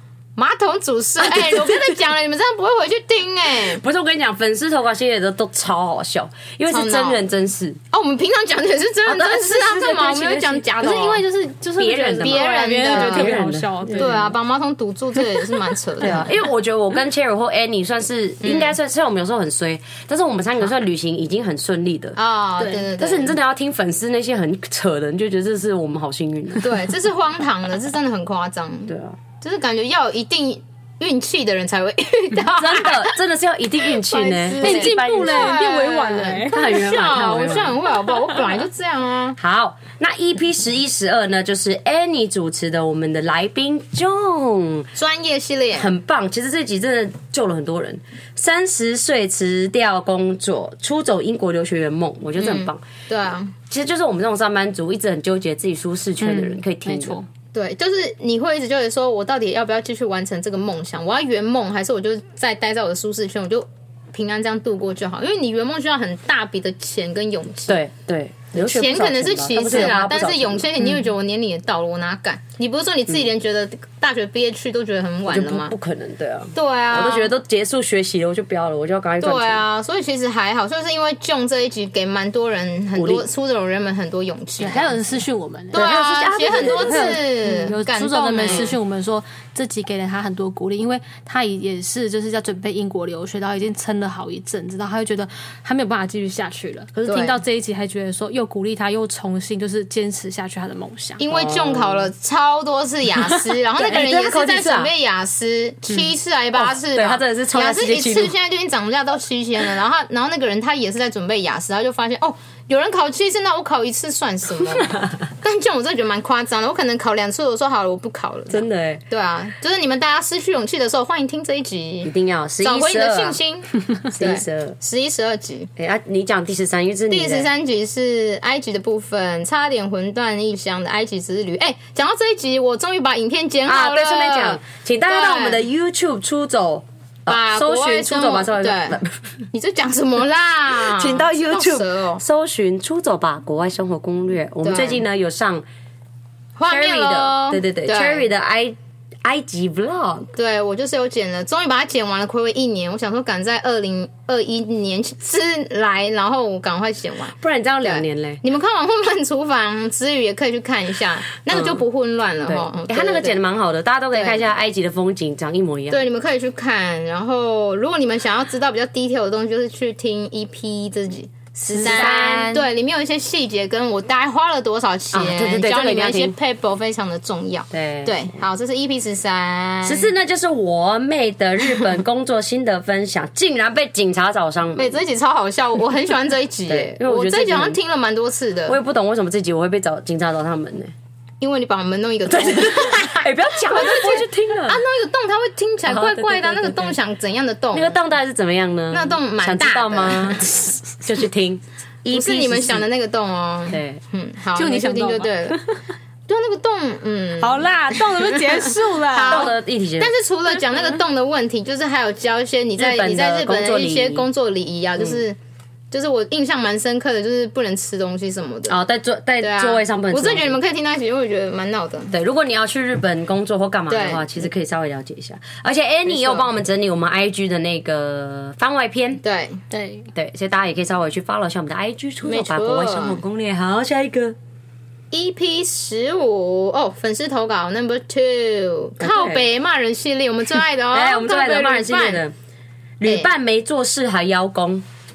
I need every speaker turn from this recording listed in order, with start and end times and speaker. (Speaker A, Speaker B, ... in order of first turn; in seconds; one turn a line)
Speaker A: 0.4-3.8
Speaker B: 3.7-7.8
Speaker A: 6.7-7.2
Speaker A: 7.9-11.2
Speaker B: 9.1-10.6
Speaker C: 10.6-14.3
Speaker B: 11.8-14.3
Speaker A: 12.2-13.4
Speaker A: 14.0-16.3
Speaker B: 16.0-22.2
Speaker A: 18.4-18.8
Speaker A: 22.2-23.4
Speaker C: 22.6-22.9
Speaker B: 23.0-26.7
Speaker A: 26.6-33.2
Speaker B: 28.9-29.2
Speaker B: 32.4-35.5
Speaker A: 33.9-39.4
Speaker C: 34.6-36.8
Speaker B: 36.5-37.8
Speaker B: 39.4-44.9
Speaker A: 45.0-45.9
Speaker B: 45.8-52.9
Speaker A: 52.4-53.5
Speaker B: 53.7-57.2
Speaker C: 56.2-57.2
Speaker A: 57.5-67.8
Speaker B: 67.7-70.7
Speaker A: 68.5-75.8
Speaker B: 75.3-79.6
Speaker A: 76.5-77.3
Speaker A: 79.2-85.0
Speaker B: 83.0-83.2
Speaker C: 84.6-101.2
Speaker A: 85.7-88.8
Speaker B: 85.7-87.2
Speaker A: 97.0-97.4
Speaker A: 101.2-125.7
Speaker B: 101.3-102.1
Speaker B: 103.8-104.9
Speaker B: 106.5-108.3
Speaker B: 118.5-119.0
Speaker B: 122.0-123.4
Speaker B: 124.1-124.8
Speaker B: 125.8-127.5
Speaker A: 127.1-135.6
Speaker B: 133.7-139.2
Speaker A: 137.3-139.0
Speaker A: 139.5-142.2
Speaker B: 140.8-145.6
Speaker A: 144.6-145.0
Speaker A: 146.6-148.2
Speaker B: 146.7-150.3
Speaker A: 150.3-163.4
Speaker B: 157.4-158.4
Speaker B: 161.5-161.8
Speaker B: 162.5-166.0
Speaker A: 164.1-164.4
Speaker A: 165.9-180.1
Speaker B: 171.7-172.7
Speaker B: 175.1-176.3
Speaker B: 177.7-178.3
Speaker B: 179.8-185.0
Speaker A: 184.8-188.8
Speaker B: 186.7-187.8
Speaker B: 188.7-190.9
Speaker A: 191.4-198.0
Speaker B: 192.3-194.8
Speaker B: 195.9-196.9
Speaker B: 197.7-202.9
Speaker A: 198.9-200.7
Speaker A: 202.1-205.6
Speaker B: 203.7-204.0
Speaker C: 204.5-205.8
Speaker A: 206.3-215.4
Speaker C: 207.4-209.5
Speaker B: 209.2-210.1
Speaker B: 212.8-214.3
Speaker A: 215.9-218.8
Speaker B: 218.7-220.6
Speaker A: 219.4-222.1
Speaker B: 222.1-229.2
Speaker A: 223.9-224.5
Speaker A: 226.1-226.5
Speaker A: 229.2-229.6
Speaker C: 229.7-230.1
Speaker B: 230.1-234.4
Speaker A: 232.2-233.2
Speaker A: 235.1-242.2
Speaker B: 239.0-239.4
Speaker B: 240.9-242.3
Speaker B: 243.0-244.8
Speaker A: 243.0-243.3